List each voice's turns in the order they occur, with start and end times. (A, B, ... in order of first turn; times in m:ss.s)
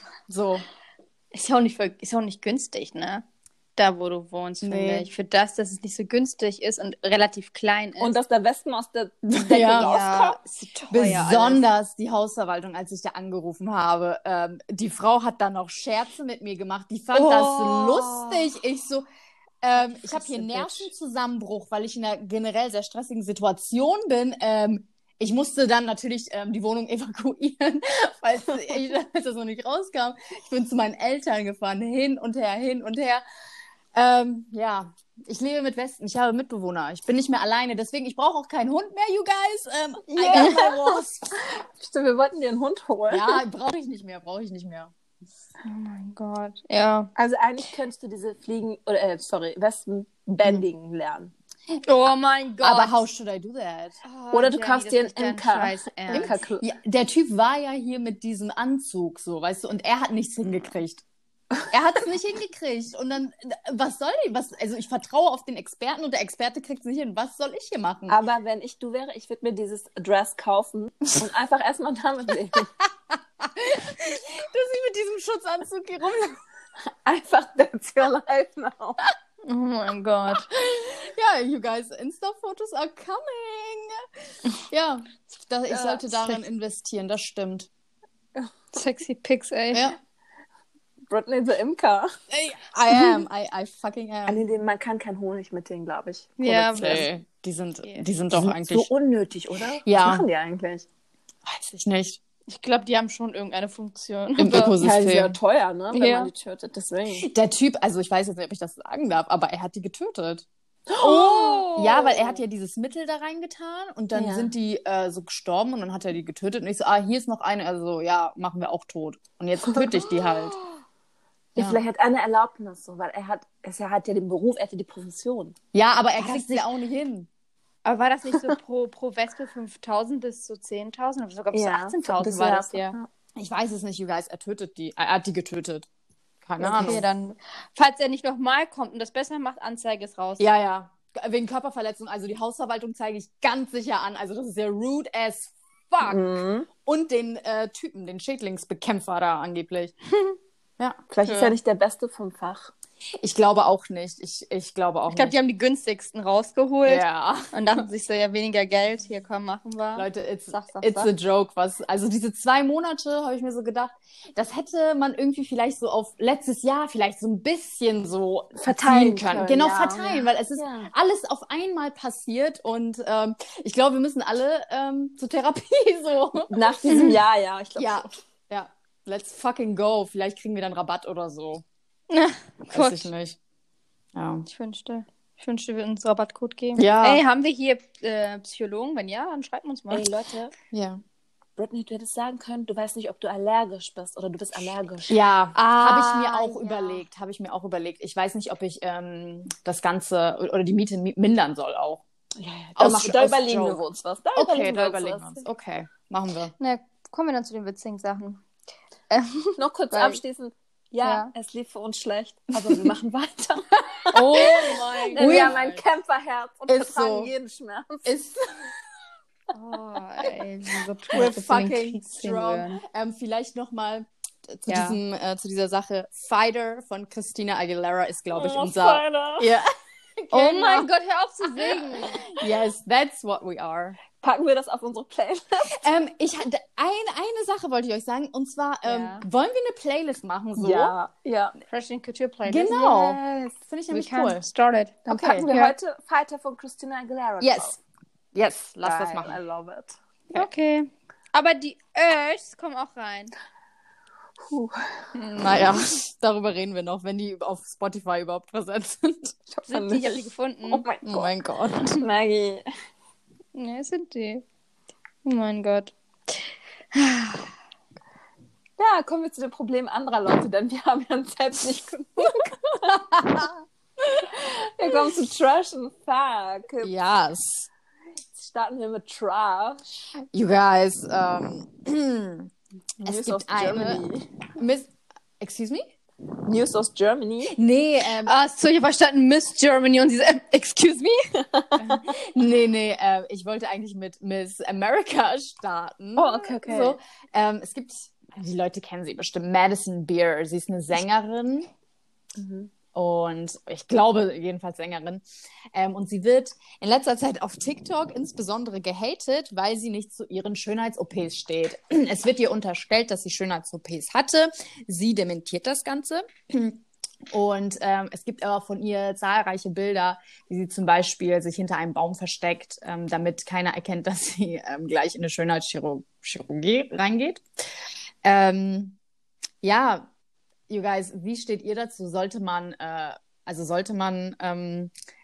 0:00.3-0:00.6 A
0:01.3-0:03.2 B
0:03.8-0:08.1 B
0:04.6-0:05.1 A
0:08.0-0:10.4 C
0:09.3-0:10.0 A
0:09.8-0:11.6 B
0:10.9-0:19.0 A
0:17.1-0:18.4 B
0:19.6-0:33.2 A
0:19.9-0:20.9 C
0:33.9-0:41.3 A
0:40.1-0:43.4 C
0:43.1-0:44.9 A
0:45.6-0:47.1 B
0:47.2-0:51.3 C
0:51.8-0:53.0 B
0:52.6-0:54.0 A
0:54.0-0:56.4 B
0:54.3-0:56.7 C
0:56.1-1:01.0 A
1:01.7-1:08.2 A
1:08.1-1:12.7 C
1:13.1-1:16.4 A
1:17.0-1:19.0 C
1:19.4-1:20.5 B
1:20.3-1:24.0 A
1:24.7-1:27.7 A
1:25.7-1:26.0 C
1:28.7-1:29.9 B
1:31.1-1:32.1 C
1:32.3-1:34.4 A
1:34.2-1:37.1 C
1:36.4-1:37.0 B
1:36.7-1:38.9 A
1:38.3-1:40.9 C
1:39.8-1:40.2 A
1:41.4-1:42.2 A
1:42.5-1:44.8 B
1:44.4-1:45.4 A
1:44.8-1:47.3 C
1:45.9-1:46.3 B
1:47.2-1:50.4 A
1:50.9-1:51.8 C
1:51.0-1:52.2 B
1:51.7-2:00.6 A
1:54.1-1:54.5 C
1:59.7-2:00.2 C
2:01.6-2:05.6 C
2:05.7-2:07.3 A
2:06.2-2:06.6 B
2:07.8-2:13.0 B
2:11.5-2:13.1 C
2:13.4-2:15.9 A
2:16.4-2:17.0 A
2:16.6-2:17.0 C
2:16.6-2:20.5 B
2:20.4-2:26.2 A
2:26.0-2:26.7 C
2:26.8-2:29.9 A
2:30.8-2:31.5 A
2:31.1-2:32.7 C
2:33.2-2:35.3 A
2:35.1-2:41.1 B
2:36.8-2:37.8 A
2:39.9-2:57.2 A
2:48.6-2:50.9 C
2:56.5-2:58.1 C
2:57.8-3:01.6 A
3:02.1-3:03.1 B
3:02.7-3:03.4 A
3:04.1-3:04.4 A
3:04.5-3:10.1 B
3:06.8-3:07.2 A
3:09.9-3:10.5 C
3:10.7-3:11.0 A
3:11.6-3:15.2 C
3:15.1-3:22.0 A
3:15.5-3:17.0 B
3:22.4-3:25.4 C
3:22.8-3:23.8 A
3:24.3-3:26.5 A
3:26.6-3:28.4 B
3:29.1-3:30.2 B
3:29.6-3:38.2 C
3:31.0-3:31.3 B
3:34.1-3:35.8 B
3:34.1-3:35.6 A
3:36.7-3:37.3 A
3:38.0-3:38.4 A
3:39.5-3:42.8 B
3:41.1-3:50.9 A
3:44.7-3:45.0 B
3:48.3-3:49.5 C
3:50.3-3:52.4 B
3:51.5-3:54.0 A
3:54.2-3:55.8 C
3:55.7-4:00.9 A
3:58.8-3:59.2 B
4:00.6-4:01.5 C
4:01.7-4:03.2 B
4:02.4-4:04.5 A
4:03.9-4:05.7 B
4:05.1-4:07.8 C
4:05.1-4:05.5 A
4:07.4-4:07.7 A
4:08.3-4:09.4 A
4:08.8-4:10.0 C
4:10.3-4:13.3 B
4:14.5-4:15.1 C
4:15.2-4:15.5 B
4:15.3-4:19.3 A
4:19.5-4:21.4 C
4:19.7-4:20.8 B
4:21.0-4:22.0 A
4:21.9-4:22.6 C
4:23.5-4:24.4 B
4:25.2-4:27.5 B
4:28.8-4:33.4 C
4:32.9-4:33.5 A
4:34.0-4:36.9 C
4:36.8-4:37.7 A
4:38.3-4:40.1 C
4:40.3-4:42.5 A
4:43.0-4:44.3 C
4:43.0-4:44.0 A
4:44.6-4:45.9 A
4:46.4-4:47.6 C
4:47.5-4:48.3 A
4:48.2-4:51.4 B
4:51.5-4:52.1 C
4:51.8-5:01.7 A
4:56.2-4:57.0 C
5:02.4-5:02.7 C
5:02.9-5:05.2 A
5:05.7-5:27.4 A
5:28.2-5:29.0 A
5:29.6-5:30.1 A
5:30.7-5:34.9 A